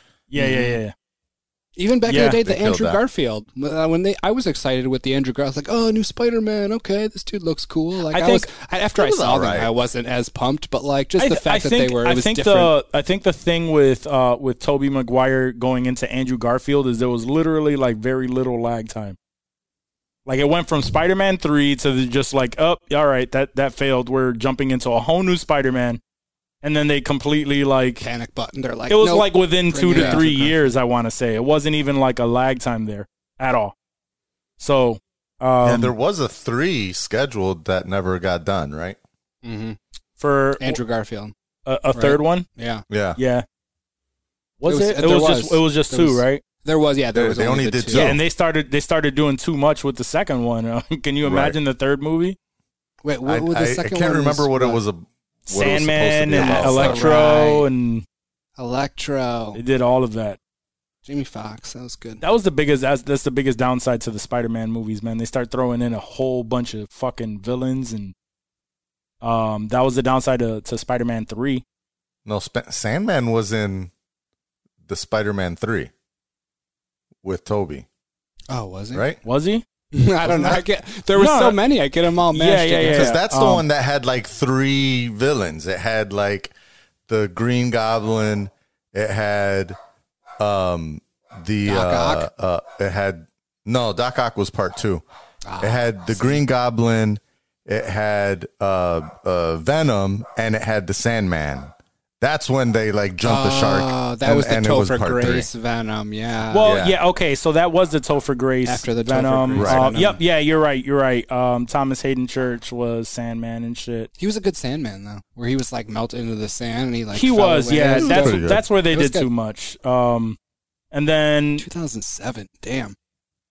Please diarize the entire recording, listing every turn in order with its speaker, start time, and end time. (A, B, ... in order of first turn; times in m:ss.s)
0:00.3-0:00.9 A
0:00.4-0:00.8 B
0:01.8-0:12.7 B
0:02.1-0:02.4 A
0:02.4-0:03.0 C
0:08.1-0:08.5 A
0:08.9-0:09.7 C
0:11.2-0:19.2 A
0:20.2-0:26.0 A
0:26.6-0:28.1 A
0:28.0-0:30.6 B
0:28.9-0:33.7 A
0:29.9-0:30.2 C
0:34.6-0:35.9 A
0:35.6-0:39.0 C
0:39.4-0:39.8 B
0:40.2-0:40.8 A
0:40.6-0:41.3 B
0:41.6-0:42.4 A
0:41.9-0:42.8 B
0:42.9-0:43.2 C
0:43.2-0:43.4 A
0:44.6-0:46.4 A
0:44.6-0:48.2 B
0:47.1-0:48.2 C
0:47.9-0:52.4 A
0:51.2-0:51.6 C
0:53.0-0:54.8 B
0:53.2-0:57.1 C
0:55.5-0:58.0 A
0:56.3-0:57.7 B
0:58.6-0:59.6 B
0:59.5-1:00.4 A
1:01.0-1:02.2 B
1:02.2-1:08.1 A
1:09.2-1:11.6 A
1:12.2-1:13.9 C
1:14.8-1:15.9 C
1:17.2-1:17.8 C
1:18.5-1:19.0 B
1:18.9-1:19.2 C
1:19.2-1:19.6 A
1:19.9-1:23.2 B
1:20.2-1:20.6 A
1:21.1-1:21.6 A
1:22.3-1:23.6 A
1:22.8-1:26.5 C
1:27.1-1:29.8 C
1:30.4-1:35.0 C
1:31.6-1:32.2 B
1:35.4-1:36.4 B
1:35.6-1:45.5 C
1:43.2-1:46.8 B
1:46.5-1:54.1 A
1:46.6-1:47.0 C
1:48.6-1:50.2 B
1:49.5-1:49.8 C
1:54.2-1:59.2 B
1:57.1-2:00.4 A
1:58.0-1:58.6 C
2:00.9-2:01.6 A
2:01.6-2:02.9 B